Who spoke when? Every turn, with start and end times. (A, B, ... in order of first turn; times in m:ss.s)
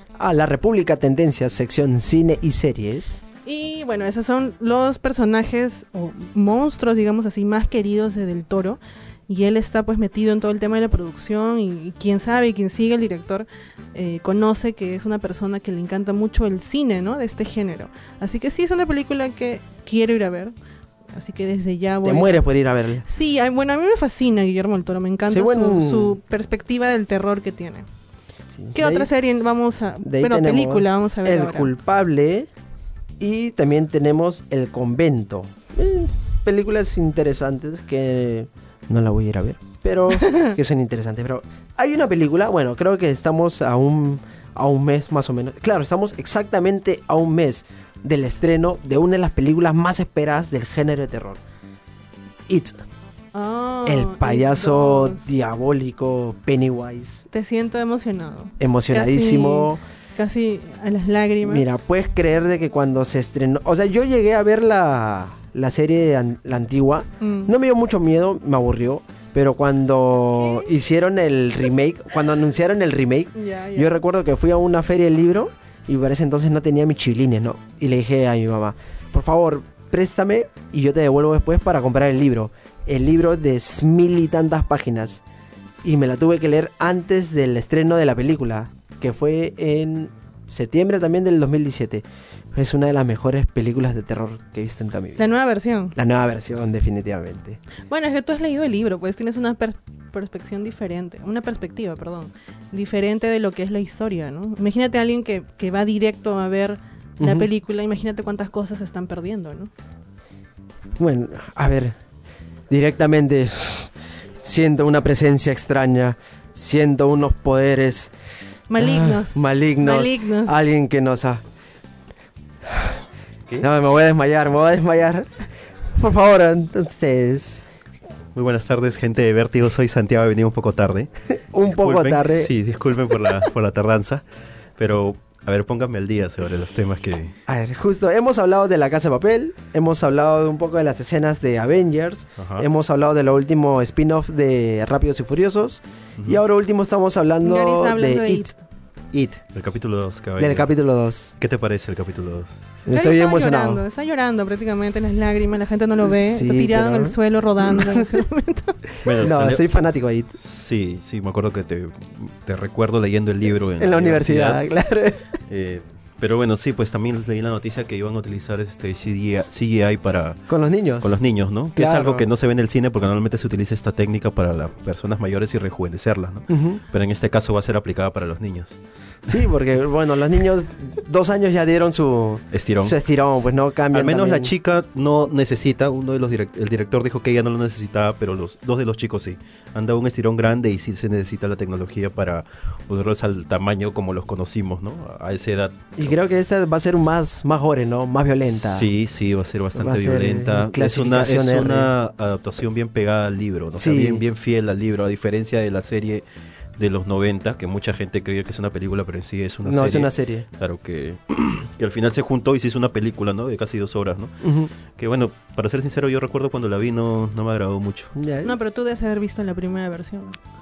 0:00.2-0:03.2 A
0:03.4-0:20.5 B
0:21.1-0:22.4 B
0:22.0-0:23.0 A
0:23.0-0:27.9 B
0:25.3-0:26.2 A
0:28.5-0:29.1 A
0:28.7-0:31.7 B
0:30.0-0:32.5 A
0:33.2-0:51.4 A
0:40.2-0:40.5 B
0:52.5-0:52.8 A
0:53.3-0:55.3 B
0:53.8-0:57.3 A
0:57.3-1:01.7 B
0:58.6-0:59.8 A
1:01.4-1:25.2 A
1:07.2-1:07.5 B
1:10.4-1:10.7 B
1:13.3-1:13.9 B
1:25.8-1:35.3 A
1:35.2-1:36.0 B
1:36.0-1:37.6 A
1:37.9-1:49.7 B
1:47.2-1:47.5 A
1:51.0-1:52.0 A
1:52.7-1:58.1 A
1:58.7-2:00.6 B
1:58.8-2:01.4 A
2:02.7-2:03.0 A
2:03.6-2:07.6 A
2:08.3-2:11.1 C
2:11.4-2:12.5 A
2:11.7-2:14.2 C
2:14.8-2:17.3 C
2:17.5-2:28.5 A
2:22.4-2:22.6 C
2:27.4-2:28.6 B
2:29.1-2:30.7 C
2:30.4-2:31.3 A
2:31.4-2:32.6 C
2:32.8-2:33.8 A
2:32.9-2:38.8 B
2:36.0-2:37.2 A
2:37.7-2:38.2 A
2:39.0-2:39.8 C
2:39.2-2:40.3 A
2:40.4-2:44.6 C
2:43.8-2:45.3 A
2:45.5-2:50.4 C
2:50.5-2:51.2 A
2:51.0-2:58.8 C
2:51.8-2:52.2 A
2:56.5-2:56.8 A
2:59.2-3:04.5 A
3:02.5-3:03.0 C
3:03.9-3:16.1 C
3:16.0-3:18.9 A
3:18.5-3:26.2 C
3:19.7-3:21.9 A
3:23.8-3:24.2 A
3:26.8-3:34.4 C
3:29.6-3:30.4 A
3:34.4-3:34.7 A
3:35.0-3:38.1 C
3:38.2-3:38.6 A
3:38.4-3:40.4 B